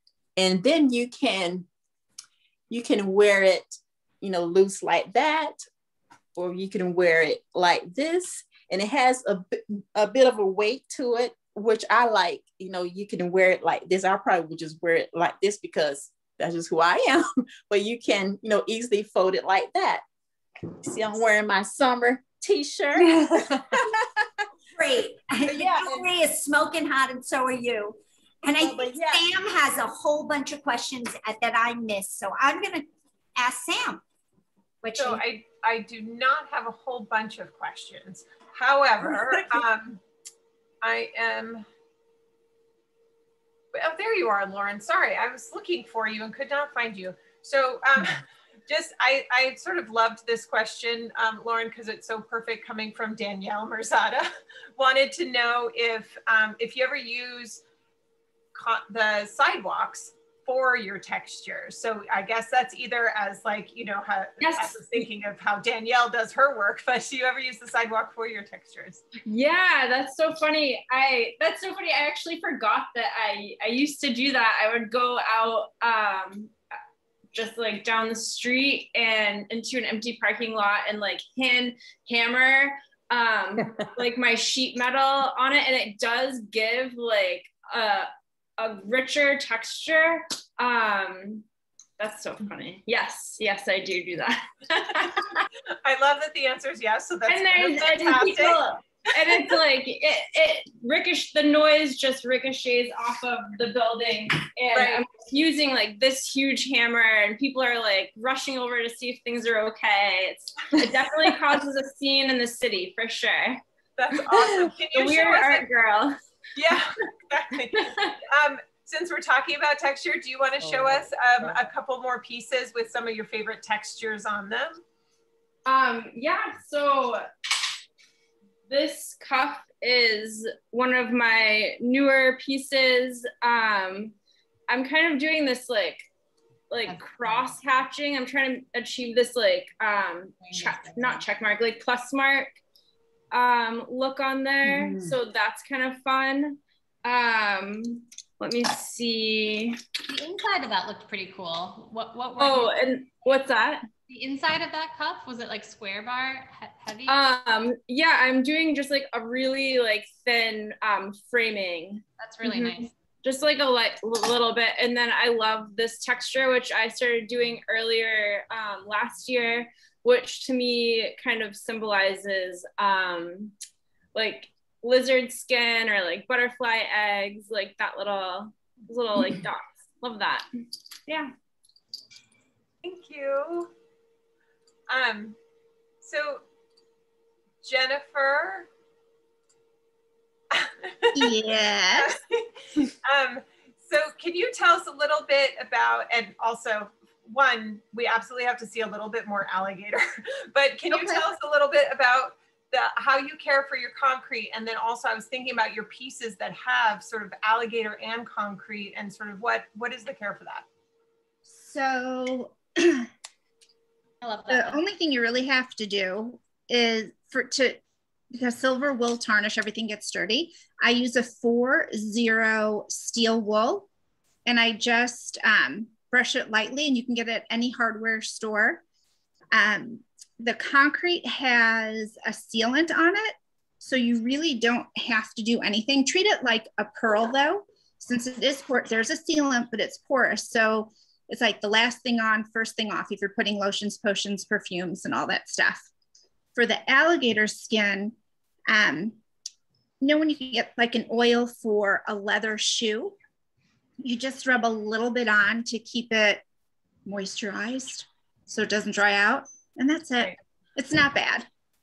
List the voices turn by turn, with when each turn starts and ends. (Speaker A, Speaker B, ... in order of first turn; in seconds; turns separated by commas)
Speaker A: 0.4-1.7, Speaker A: 2.7-5.6, Speaker A: 6.4-20.0, Speaker A: 20.8-23.2, Speaker B: 24.7-32.9, Speaker A: 25.5-26.1, Speaker A: 28.6-29.2, Speaker B: 33.4-34.0, Speaker B: 34.8-35.2, Speaker C: 35.0-40.0, Speaker C: 40.8-41.7, Speaker C: 43.7-57.6, Speaker C: 58.5-69.0, Speaker D: 64.4-65.1, Speaker D: 69.3-76.5, Speaker D: 77.3-91.5, Speaker D: 92.0-95.5, Speaker C: 95.8-98.6, Speaker D: 97.3-116.2, Speaker C: 104.7-105.0, Speaker C: 114.0-115.6, Speaker C: 116.6-124.8, Speaker D: 117.6-118.2, Speaker D: 125.7-127.3, Speaker D: 128.7-134.1, Speaker D: 134.7-136.1, Speaker D: 136.7-142.6, Speaker E: 136.9-137.5, Speaker E: 140.5-141.2, Speaker D: 143.3-149.8, Speaker E: 144.6-145.1, Speaker E: 150.1-152.7, Speaker D: 152.4-153.9, Speaker E: 154.1-157.2, Speaker D: 157.1-173.5, Speaker E: 162.2-162.9, Speaker D: 174.1-180.5, Speaker D: 181.1-181.3, Speaker C: 182.8-183.7, Speaker C: 184.9-185.4, Speaker C: 186.0-186.4, Speaker C: 187.6-188.7, Speaker C: 190.5-191.4, Speaker F: 191.1-192.2, Speaker C: 191.9-192.4, Speaker C: 193.0-210.7, Speaker F: 200.9-201.2, Speaker F: 211.5-213.1, Speaker E: 214.2-214.8, Speaker F: 214.5-217.8, Speaker F: 218.3-223.9, Speaker F: 224.4-228.8, Speaker F: 229.5-245.9, Speaker F: 246.6-248.2, Speaker F: 248.7-249.2, Speaker F: 250.0-253.2, Speaker F: 254.0-256.4, Speaker F: 257.1-261.5